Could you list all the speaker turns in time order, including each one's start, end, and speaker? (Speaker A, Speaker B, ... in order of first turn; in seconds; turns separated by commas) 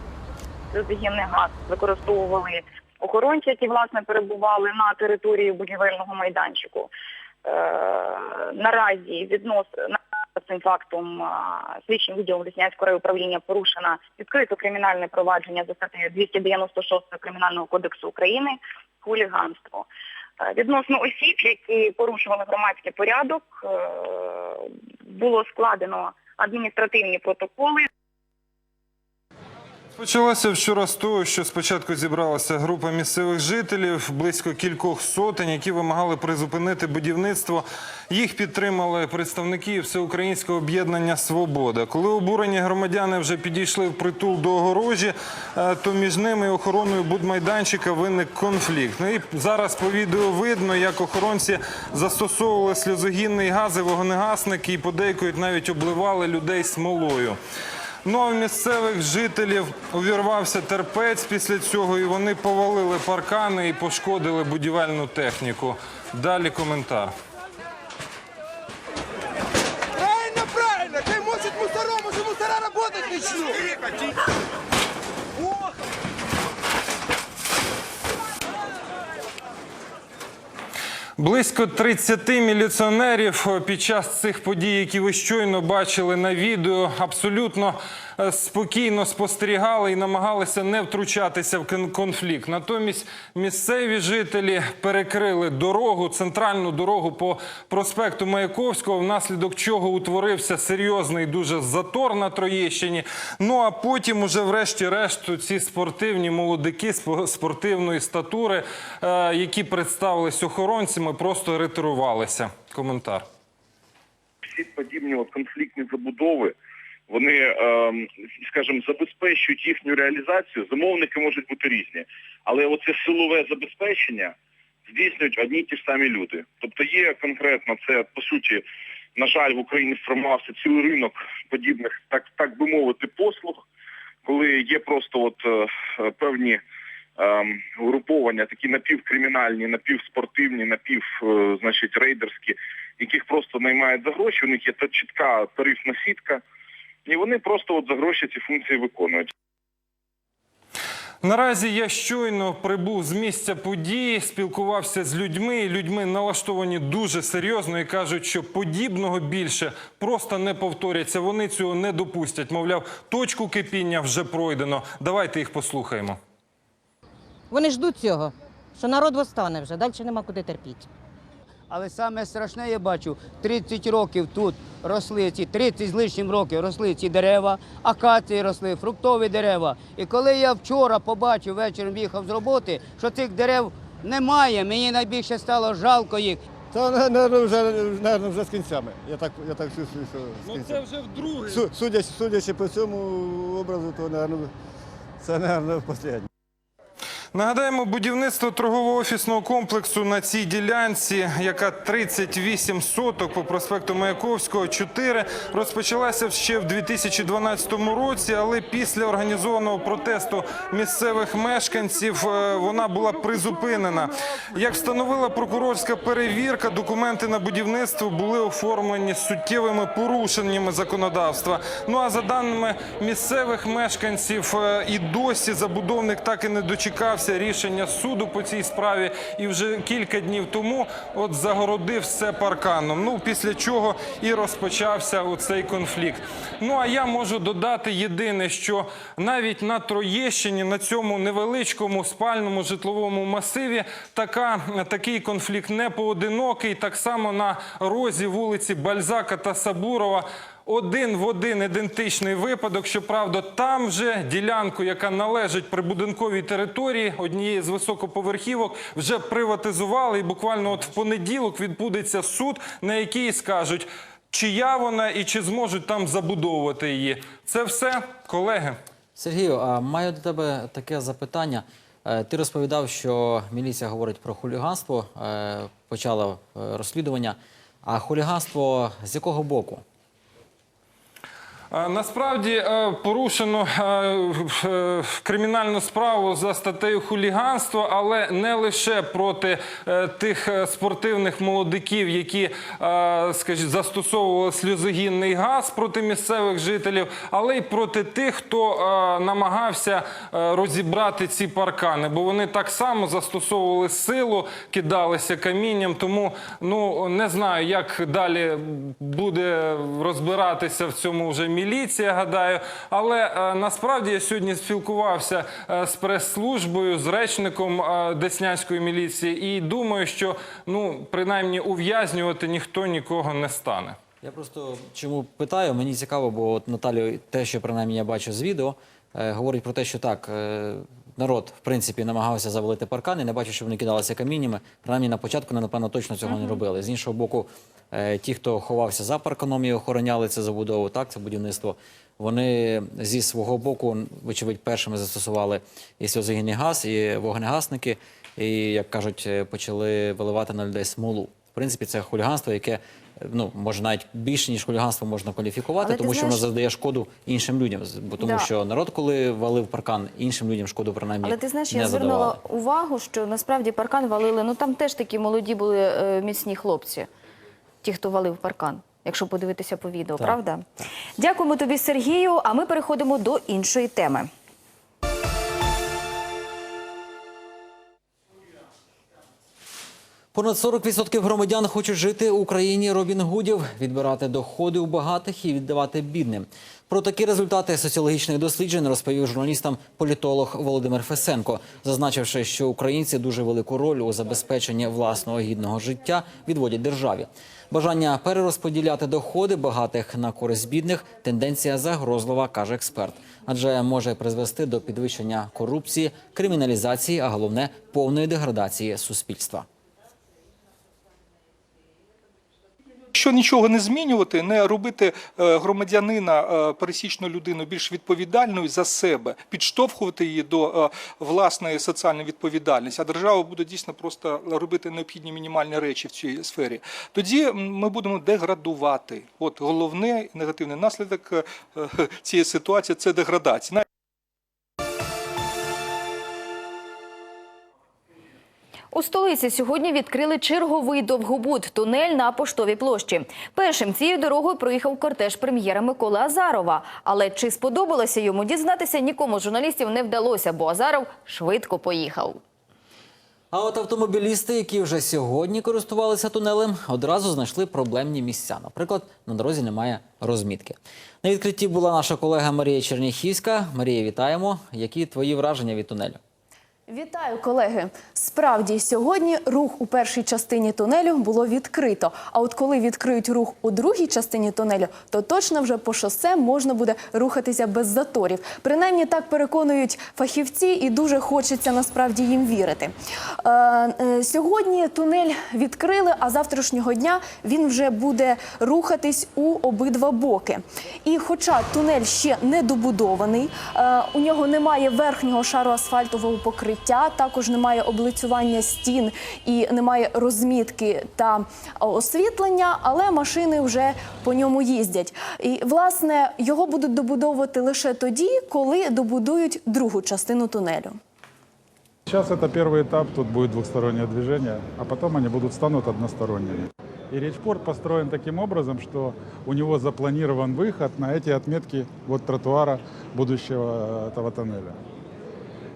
Speaker A: 0.7-6.9, Speaker A: 7.4-19.9, Speaker A: 20.4-27.9, Speaker B: 30.0-57.4, Speaker B: 58.0-67.1, Speaker B: 81.2-113.2, Speaker C: 114.4-116.5, Speaker C: 117.1-124.3, Speaker C: 124.9-128.6, Speaker C: 129.2-133.6, Speaker C: 134.2-136.6, Speaker C: 137.2-146.4, Speaker C: 147.1-149.3, Speaker B: 151.2-166.2, Speaker D: 167.5-170.9, Speaker E: 171.7-186.4, Speaker F: 186.7-190.8, Speaker B: 190.5-191.6, Speaker F: 191.4-194.5, Speaker F: 195.2-196.3, Speaker B: 197.3-268.8, Speaker G: 269.2-279.8, Speaker B: 281.7-324.0, Speaker G: 324.2-362.4, Speaker H: 355.8-356.4, Speaker H: 358.2-358.5, Speaker H: 361.2-367.1, Speaker H: 367.8-370.7, Speaker G: 370.2-370.9, Speaker H: 371.2-374.3, Speaker G: 380.3-409.6, Speaker I: 413.1-433.8, Speaker H: 438.9-452.4, Speaker G: 453.5-466.2, Speaker J: 466.9-511.0, Speaker K: 512.0-524.8